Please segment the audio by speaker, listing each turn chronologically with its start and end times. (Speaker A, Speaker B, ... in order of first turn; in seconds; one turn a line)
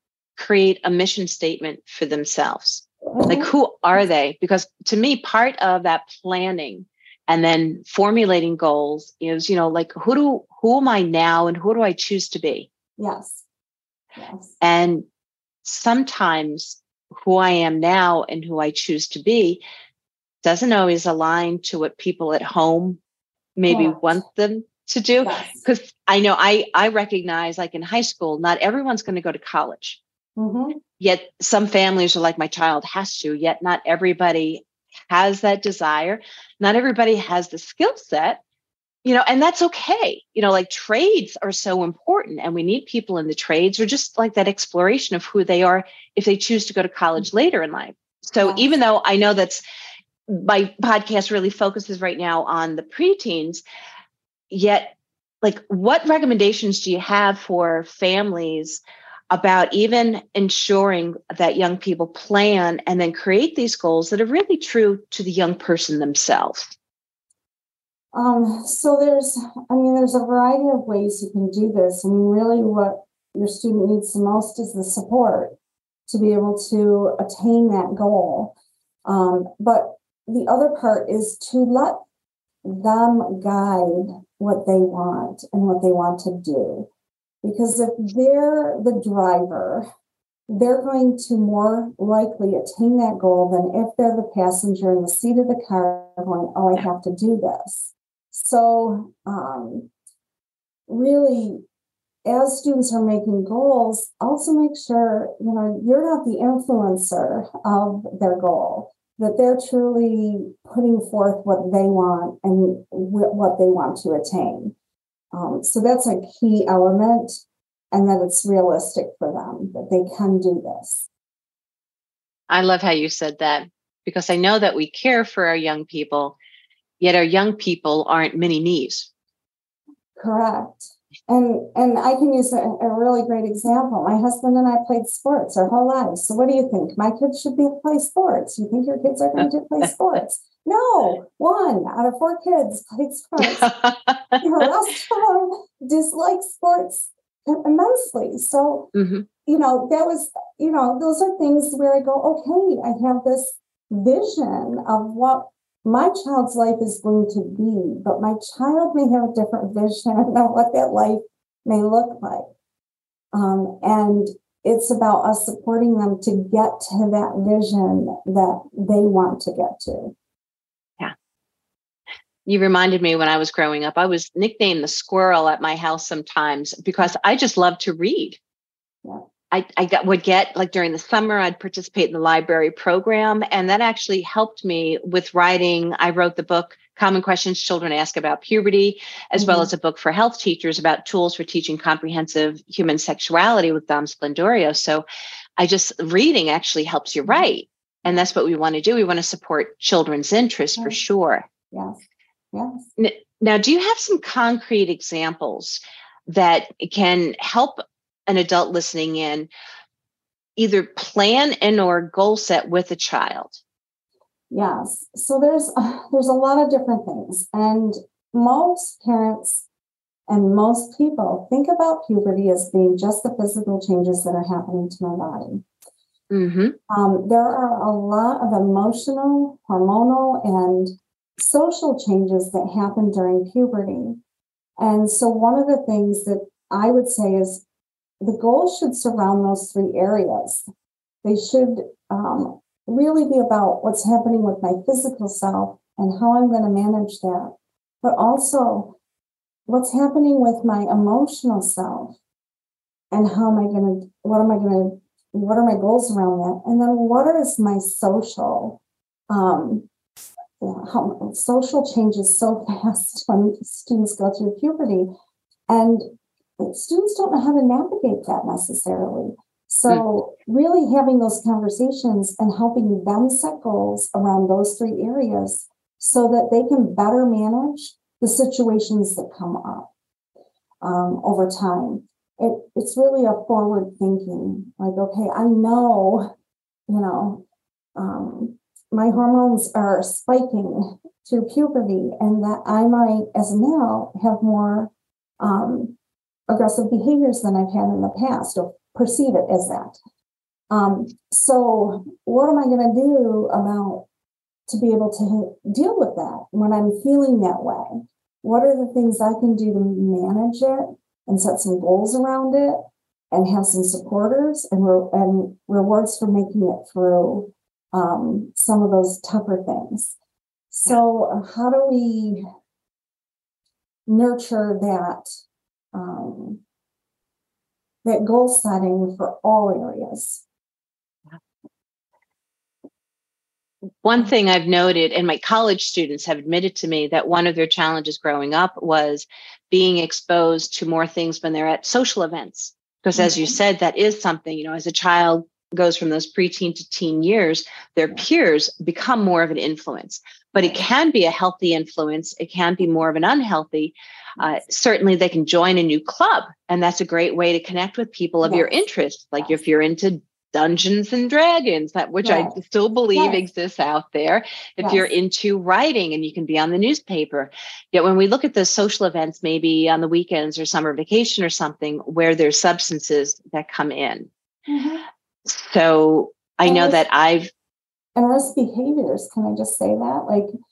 Speaker A: 0.3-12.7
Speaker B: 3.1-3.5
Speaker B: 13.0-13.4
Speaker B: 14.2-14.5
Speaker A: 14.6-15.1
Speaker A: 15.6-19.6
Speaker A: 20.4-23.0
Speaker A: 23.6-30.0
Speaker B: 23.6-24.2
Speaker B: 25.2-25.6
Speaker B: 30.4-30.8
Speaker A: 31.0-38.4
Speaker A: 39.0-49.6
Speaker B: 48.4-48.7
Speaker A: 50.3-53.6
Speaker A: 54.5-66.7
Speaker B: 68.1-75.5
Speaker B: 76.1-78.5
Speaker B: 79.0-82.0
Speaker B: 82.6-86.9
Speaker B: 87.4-89.8
Speaker B: 90.5-99.9
Speaker B: 100.9-101.6
Speaker B: 102.2-114.7
Speaker B: 115.3-117.4
Speaker B: 117.9-121.1
Speaker A: 122.5-126.3
Speaker A: 127.0-129.1
Speaker B: 130.2-143.7
Speaker A: 143.4-144.4
Speaker B: 144.4-148.9
Speaker A: 148.9-149.2
Speaker B: 149.4-162.5
Speaker B: 163.3-170.1
Speaker A: 172.4-178.4
Speaker A: 179.5-195.0
Speaker B: 189.4-189.7
Speaker A: 195.6-201.4
Speaker B: 201.7-202.0
Speaker B: 202.5-202.9
Speaker A: 203.0-209.5
Speaker A: 210.6-213.6
Speaker B: 214.5-219.7
Speaker B: 220.3-225.6
Speaker A: 226.3-226.8
Speaker B: 226.9-234.2
Speaker B: 234.8-237.6
Speaker B: 238.2-240.6
Speaker B: 241.2-248.9
Speaker B: 249.7-252.2
Speaker B: 253.1-259.9
Speaker B: 260.6-265.1
Speaker B: 265.7-266.1
Speaker B: 266.6-279.9
Speaker B: 280.8-286.3
Speaker B: 286.9-287.4
Speaker B: 287.9-295.9
Speaker B: 296.5-300.0
Speaker B: 300.7-304.1
Speaker B: 304.7-320.1
Speaker B: 320.7-322.4
Speaker B: 324.1-325.3
Speaker B: 325.9-326.6
Speaker B: 328.0-330.4
Speaker A: 334.0-374.3
Speaker B: 343.2-343.5
Speaker B: 358.4-358.8
Speaker B: 362.2-362.6
Speaker B: 363.1-363.4
Speaker B: 364.8-365.1
Speaker B: 374.7-375.0
Speaker A: 375.4-377.5
Speaker B: 376.6-377.0
Speaker B: 378.1-380.5